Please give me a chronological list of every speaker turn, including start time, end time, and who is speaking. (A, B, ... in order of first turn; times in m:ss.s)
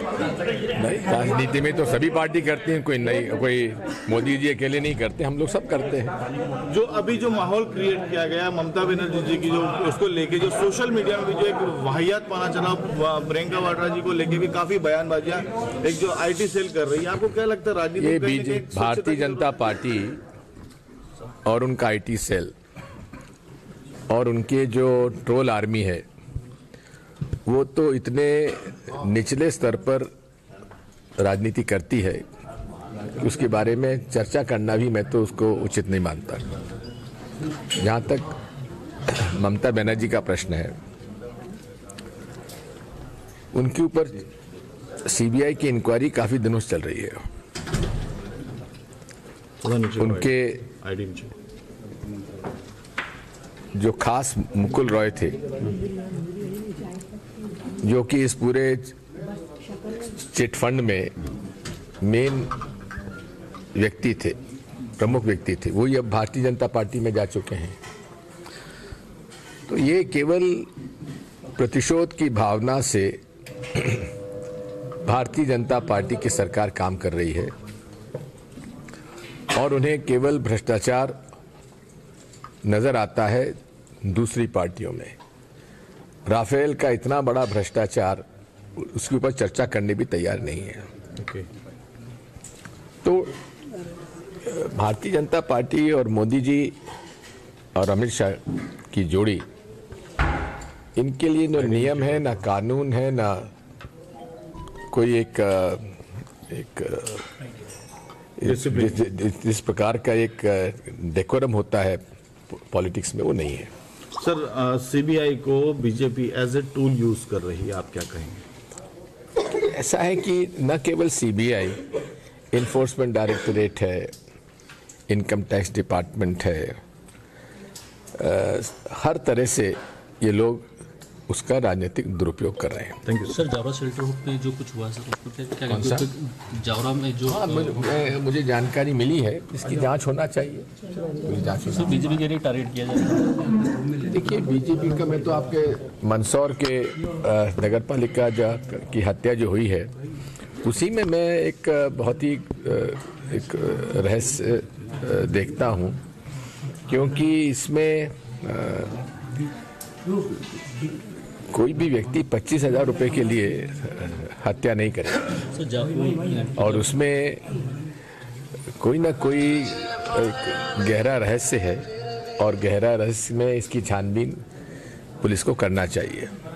0:00.7-0:06.1 A
0:06.7-0:19.6 B
0:18.0-0:20.2 A
0:21.4-0:22.5 A
0:24.1-0:26.0 A
0:27.4-0:30.1 A
0:31.2-0:32.2 A
0:33.2-0:36.4 A
0:37.8-0:38.3 A
0:39.1-0:40.8 A
0:43.5-0:44.2 A
0:45.0-0:47.2 A
0:49.6-0:51.3 B
0:50.0-0:50.6 A
0:53.7-0:55.4 A
0:57.8-0:58.9 A
1:00.2-1:01.1 A
1:02.0-1:02.5 A
1:03.7-1:04.4 A
1:05.0-1:07.8 A
1:09.7-1:10.7 A
1:11.6-1:13.2 A
1:13.7-1:14.1 A
1:15.0-1:17.5 A
1:19.5-1:21.2 A
1:22.6-1:25.1 A
1:26.3-1:28.2 A
1:28.8-1:30.8 A
1:31.2-1:31.5 B
1:33.0-1:33.3 A
1:34.4-1:36.7 A
1:37.7-1:39.4 A
1:41.0-1:43.5 A
1:41.6-1:42.4 B
1:44.9-1:45.9 A
1:46.5-1:47.3 A
1:48.4-1:53.7 A
1:48.4-1:49.0 B
1:54.2-1:58.4 B
1:59.6-2:01.8 A
2:02.5-2:04.1 A
2:05.1-2:06.8 A
2:08.1-2:10.7 A
2:11.3-2:13.0 A
2:13.0-2:13.4 B
2:13.3-2:18.1 C
2:15.7-2:16.1 A
2:17.3-2:22.0 A
2:21.6-2:23.6 C
2:24.0-2:29.9 A
2:30.6-2:36.0 A
2:36.9-2:39.0 A
2:41.5-2:45.4 A
2:45.5-2:46.9 C
2:46.6-2:47.4 A
2:48.8-2:51.8 A
2:52.4-2:54.4 A
2:55.2-2:56.3 A